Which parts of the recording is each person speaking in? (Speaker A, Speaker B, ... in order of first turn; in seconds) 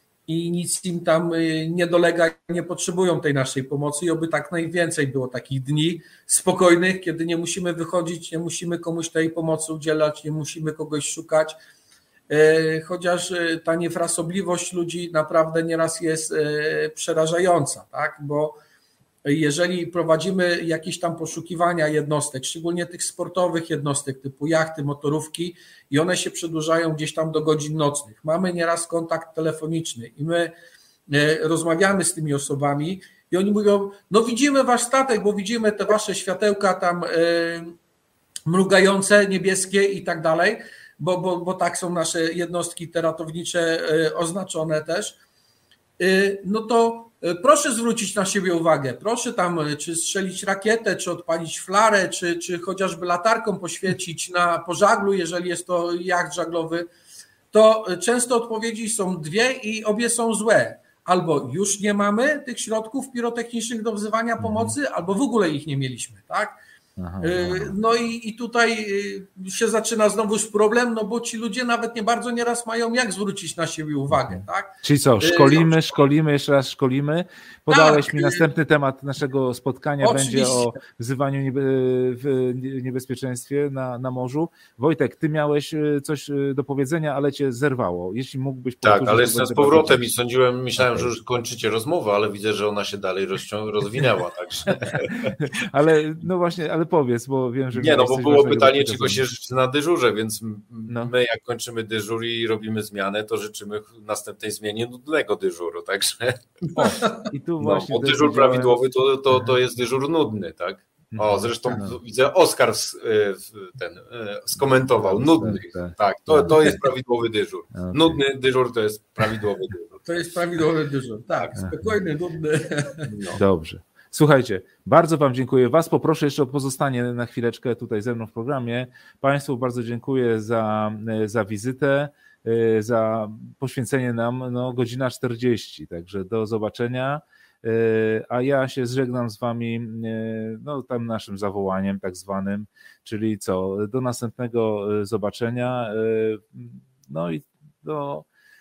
Speaker A: 0.3-11.6, 12.3-18.6, 19.3-30.5, 31.1-37.8, 38.5-45.2, 46.0-56.9, 57.5-66.6, 67.2-75.8, 77.7-78.5, 80.0-80.8, 106.8-107.3, 120.1-123.1
Speaker B: 64.4-64.8, 67.0-67.8, 74.1-90.0, 90.8-91.1, 95.4-99.2, 100.9-101.1, 106.8-109.6, 111.1-112.0, 114.6-116.8, 117.7-118.2, 121.6-122.0, 123.4-148.3
Speaker C: 88.8-95.3, 97.7-106.7, 107.6-120.3, 123.1-123.4